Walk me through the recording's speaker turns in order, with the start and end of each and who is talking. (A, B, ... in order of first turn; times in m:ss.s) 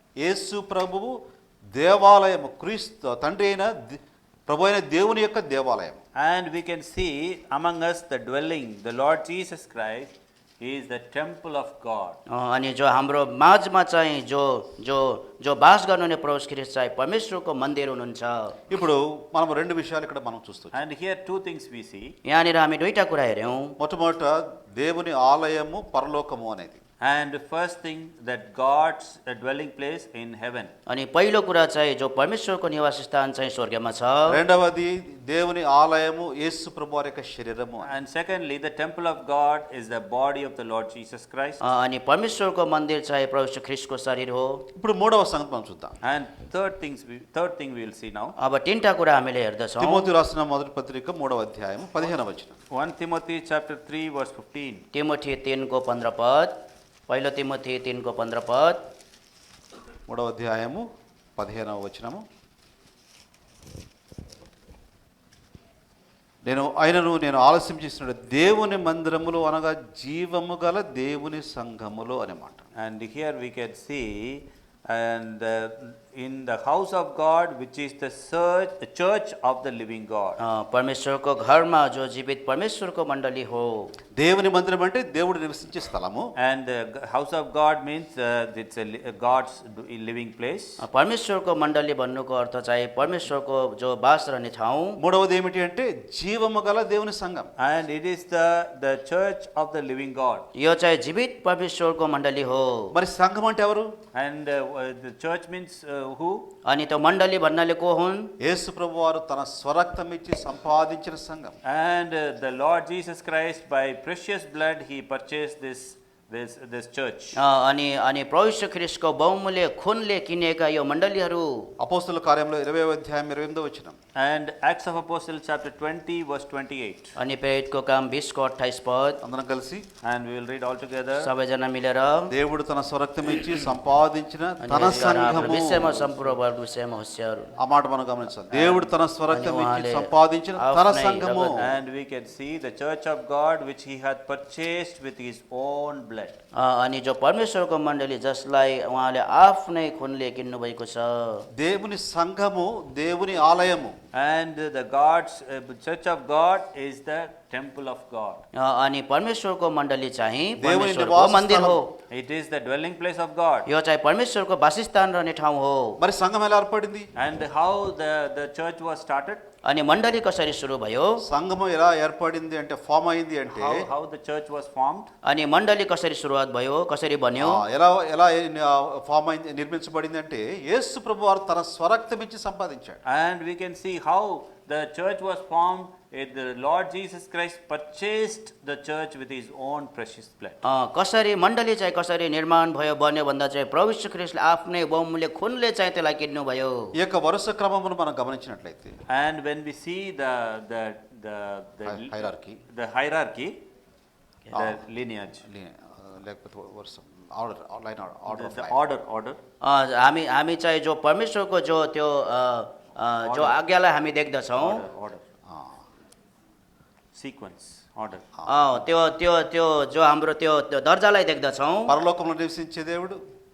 0:00.2-0:01.1 A
0:01.8-0:06.0 A
0:06.2-0:12.2 B
0:12.3-0:18.6 C
0:18.7-0:20.8 A
0:20.7-0:22.1 B
0:22.3-0:23.8 C
0:23.8-0:26.8 A
0:27.0-0:30.7 B
0:30.9-0:34.4 C
0:34.3-0:37.9 A
0:37.8-0:41.6 B
0:41.6-0:44.6 C
0:44.8-0:46.0 A
0:46.0-0:48.4 B
0:48.4-0:50.1 C
0:49.8-0:52.6 A
0:52.7-0:54.8 B
0:54.9-0:56.5 C
0:57.1-0:58.8 C
1:00.1-1:00.9 A
1:01.4-1:02.2 A
1:06.4-1:12.6 A
1:12.8-1:20.4 B
1:20.4-1:23.9 C
1:24.2-1:26.3 A
1:26.4-1:30.8 B
1:30.8-1:35.0 C
1:35.0-1:37.5 A
1:37.6-1:40.5 B
1:40.6-1:42.9 C
1:42.9-1:43.9 A
1:44.1-1:46.5 B
1:46.7-1:48.3 C
1:48.4-1:51.6 A
1:51.6-1:57.4 B
1:57.4-2:01.7 C
2:01.8-2:04.0 A
2:04.2-2:07.1 B
2:07.2-2:09.2 C
2:09.2-2:09.8 A
2:10.0-2:11.3 B
2:11.2-2:12.3 C
2:12.3-2:15.9 A
2:14.6-2:17.5 C
2:14.9-2:16.4 B
2:17.6-2:21.7 A
2:18.5-2:18.9 B
2:19.3-2:21.6 C
2:21.6-2:26.4 B
2:26.6-2:31.5 C
2:31.5-2:34.0 A
2:34.1-2:38.4 B
2:38.6-2:41.9 C
2:40.6-2:41.8 A
2:42.1-2:43.7 B
2:43.7-2:46.0 C
2:46.0-2:47.1 A
2:47.2-2:49.4 B
2:49.6-2:51.2 C
2:51.2-2:53.9 A
2:53.5-2:55.1 B
2:55.2-2:57.6 C
2:57.4-3:03.0 A
3:03.1-3:10.6 B
3:10.6-3:16.9 C
3:16.9-3:19.0 A
3:19.1-3:23.6 B
3:21.8-3:22.6 A
3:24.5-3:25.4 B
3:24.5-3:24.8 A
3:25.4-3:28.8 A
3:28.3-3:29.4 B
3:29.6-3:34.8 C
3:33.2-3:33.6 B
3:34.6-3:35.2 B
3:35.5-3:35.8 A
3:37.1-3:38.3 B
3:38.5-3:42.0 C
3:41.9-3:43.2 A